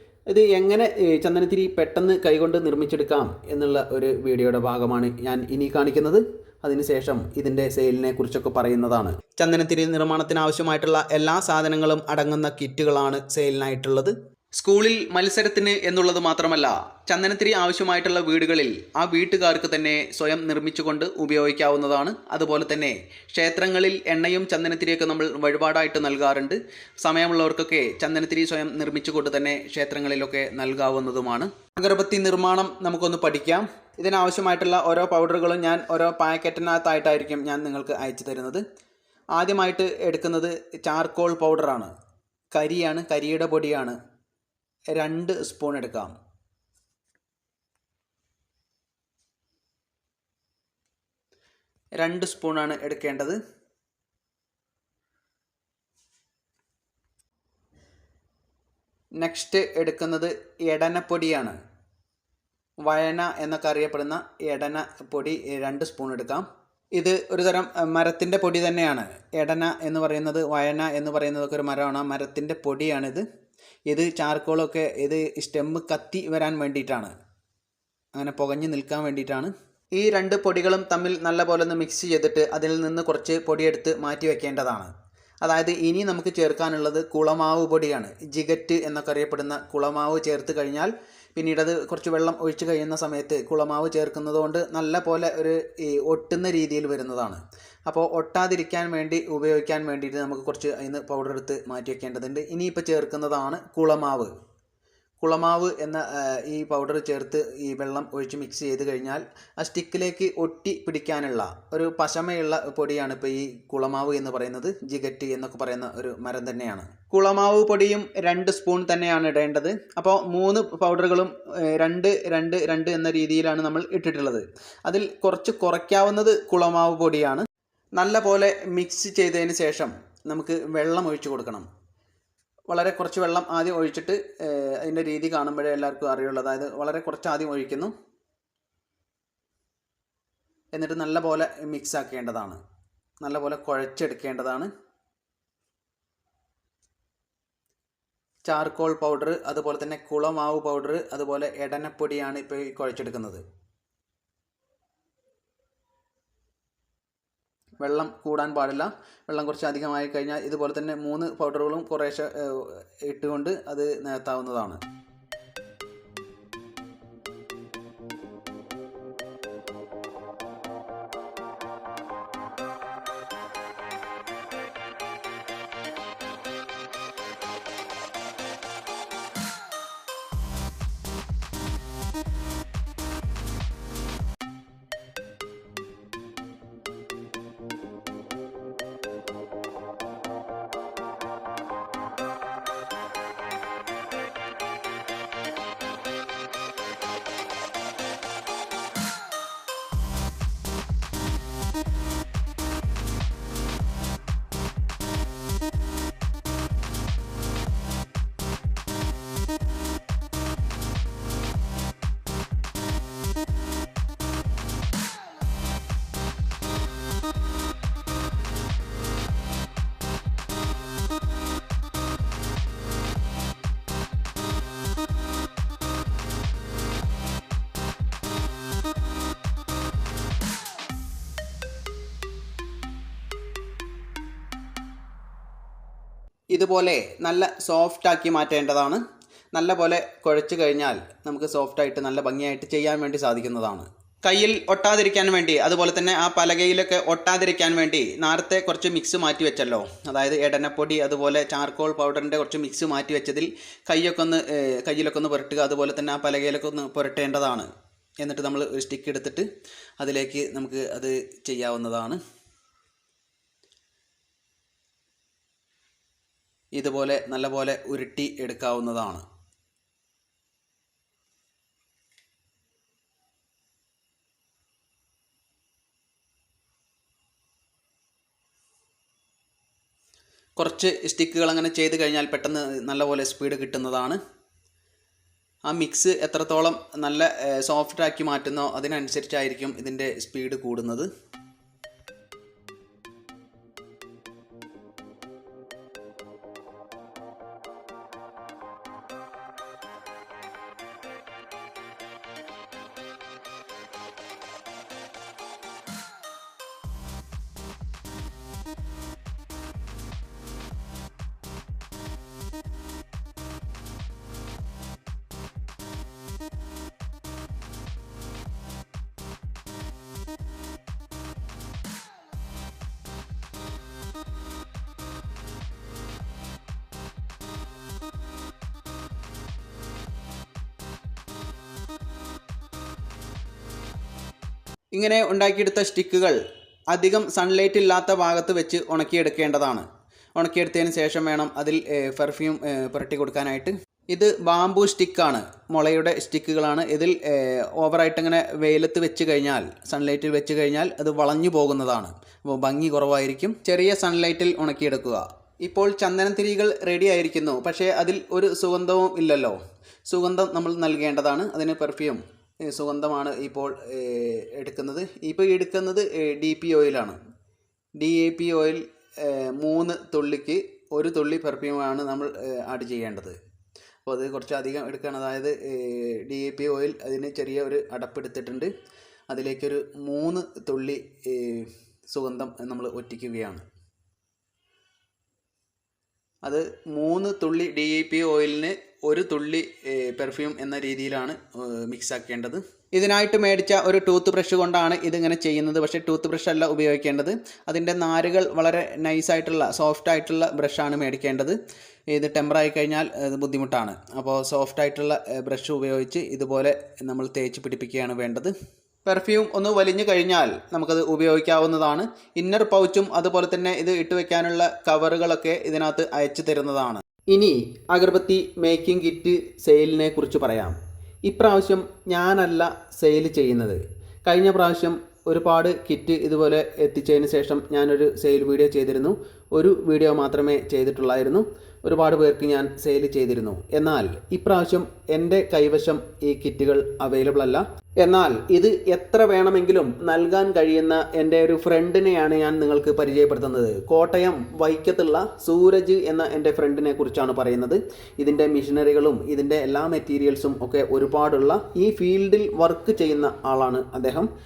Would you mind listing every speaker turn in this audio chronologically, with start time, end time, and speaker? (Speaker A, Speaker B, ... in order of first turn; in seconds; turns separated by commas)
Speaker A: 0.3-38.6, Speaker A: 39.4-41.9, Speaker A: 42.5-44.0, Speaker A: 45.0-46.1, Speaker A: 52.0-53.4, Speaker A: 59.2-61.6, Speaker A: 62.9-73.2, Speaker A: 73.9-77.1, Speaker A: 78.1-84.9, Speaker A: 85.4-104.3, Speaker A: 105.2-127.5, Speaker A: 128.0-131.7, Speaker A: 132.7-137.9, Speaker A: 140.7-142.6, Speaker A: 143.2-144.7, Speaker A: 148.4-153.4, Speaker A: 157.8-164.8, Speaker A: 236.5-239.0, Speaker A: 239.5-257.7, Speaker A: 258.2-259.5, Speaker A: 260.0-262.2, Speaker A: 266.8-269.2, Speaker A: 280.6-284.2, Speaker A: 285.7-291.1, Speaker A: 334.9-336.4, Speaker A: 336.9-339.9, Speaker A: 340.4-359.6, Speaker A: 360.1-367.2, Speaker A: 368.0-373.4, Speaker A: 374.1-378.7, Speaker A: 379.3-383.6, Speaker A: 386.4-401.6, Speaker A: 402.1-408.5, Speaker A: 409.1-454.3